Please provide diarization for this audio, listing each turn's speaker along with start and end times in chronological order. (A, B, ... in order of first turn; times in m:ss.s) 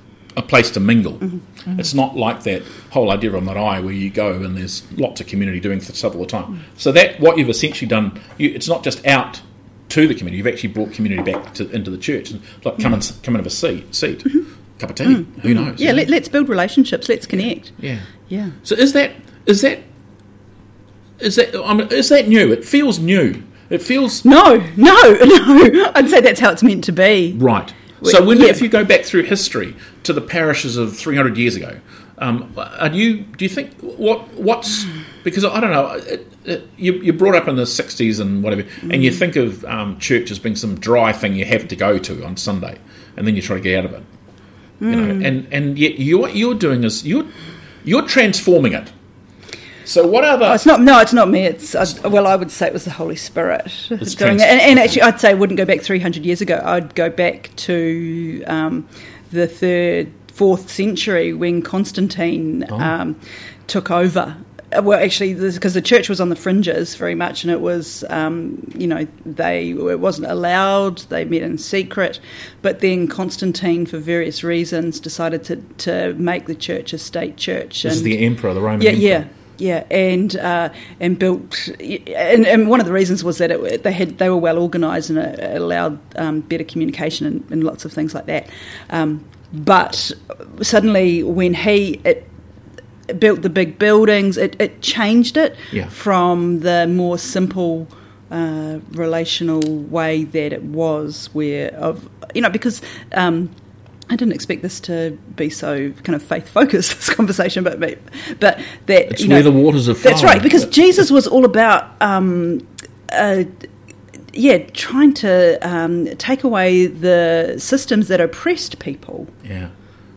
0:00.3-0:16.1 A
0:15.0-0:17.8 B
0:17.3-0:18.1 A
0:18.3-0:18.6 B
0:18.6-0:19.8 A
0:21.2-0:24.2 A
0:24.2-0:27.4 B
0:27.3-0:44.0 A
0:28.0-0:28.6 B
0:44.8-0:45.3 B
0:44.8-0:47.3 A
0:47.8-0:48.9 A
0:49.8-0:50.6 A
0:50.4-1:18.2 B
0:54.0-0:55.0 A
1:17.8-1:19.2 A
1:18.8-1:32.3 B
1:33.1-1:43.5 B
1:44.1-1:53.5 B
1:49.1-1:50.7 A
1:54.3-1:59.3 B
1:59.4-1:59.7 A